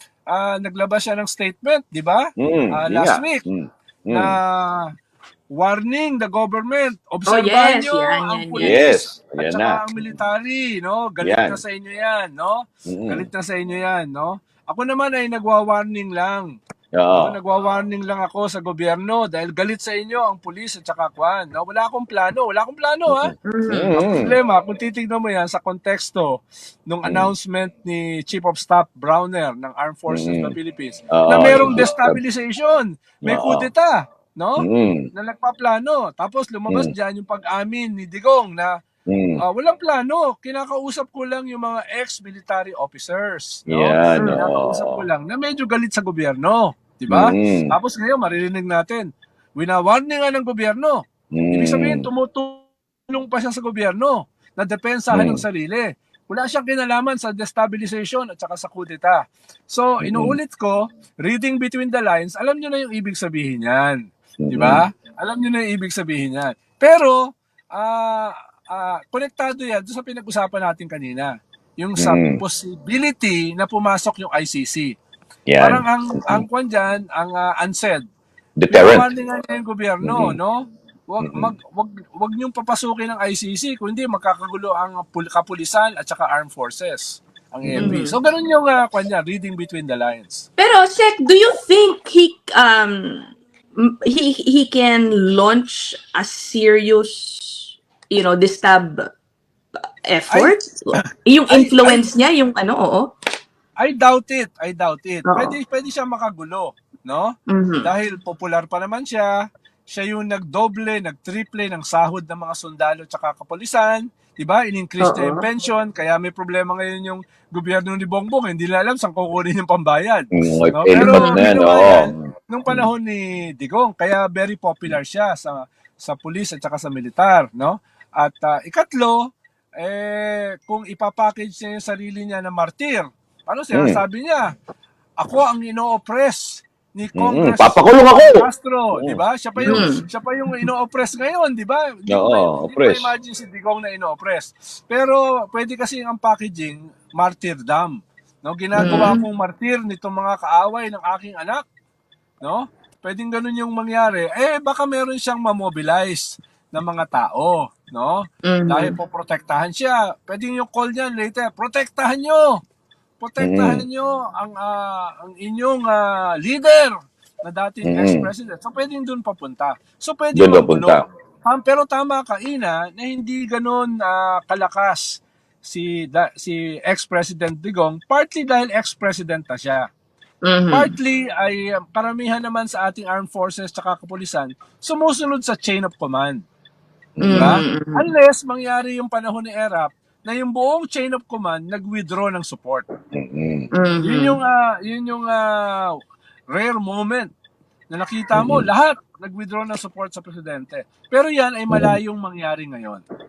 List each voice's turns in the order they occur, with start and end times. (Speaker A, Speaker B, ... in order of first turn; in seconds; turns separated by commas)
Speaker A: 0.3-3.4, Speaker B: 2.4-4.3, Speaker A: 4.1-4.9, Speaker A: 5.5-16.5, Speaker C: 7.2-8.8, Speaker B: 8.6-10.2, Speaker B: 11.2-11.6, Speaker B: 12.9-13.3, Speaker B: 16.9-17.4, Speaker A: 17.1-23.3, Speaker B: 23.1-24.3, Speaker C: 23.5-23.9, Speaker A: 23.9-26.3, Speaker A: 26.9-38.7, Speaker B: 27.0-27.3, Speaker B: 30.1-30.5, Speaker B: 31.1-32.2, Speaker B: 33.2-33.7, Speaker B: 34.6-35.0, Speaker B: 39.1-39.4, Speaker A: 39.4-67.2, Speaker B: 43.7-45.0, Speaker C: 44.1-44.5, Speaker B: 47.1-47.7, Speaker B: 51.3-52.0, Speaker B: 55.1-55.4, Speaker B: 60.0-60.4, Speaker B: 64.4-64.8, Speaker A: 67.7-74.9, Speaker B: 72.0-72.4, Speaker B: 75.5-76.4, Speaker A: 75.6-78.0, Speaker B: 78.6-79.1, Speaker A: 78.7-90.5, Speaker B: 80.0-80.3, Speaker B: 81.2-81.5, Speaker B: 87.6-88.0, Speaker C: 87.8-88.2, Speaker C: 90.6-99.1, Speaker C: 100.0-103.1, Speaker A: 100.3-100.5, Speaker A: 101.5-102.1, Speaker A: 103.8-109.3, Speaker C: 105.2-105.5, Speaker C: 107.5-107.9, Speaker A: 109.9-129.2, Speaker C: 115.0-115.5, Speaker B: 120.3-122.9, Speaker C: 121.0-121.4, Speaker A: 129.8-134.5, Speaker B: 133.7-134.0, Speaker A: 135.2-151.6, Speaker B: 137.2-139.8, Speaker C: 139.7-140.0, Speaker B: 142.1-143.1, Speaker C: 148.8-149.2, Speaker A: 152.4-162.6, Speaker C: 158.4-158.9, Speaker A: 163.2-179.8, Speaker B: 163.4-163.8, Speaker B: 167.8-168.3, Speaker B: 170.3-171.0, Speaker C: 180.4-180.9, Speaker A: 180.7-186.4, Speaker B: 187.2-187.5, Speaker C: 187.2-188.1, Speaker A: 187.3-192.8, Speaker B: 193.1-193.7, Speaker C: 193.7-194.4, Speaker A: 194.0-195.9, Speaker A: 196.5-197.3, Speaker A: 197.9-203.0, Speaker B: 198.3-198.7, Speaker B: 201.7-201.9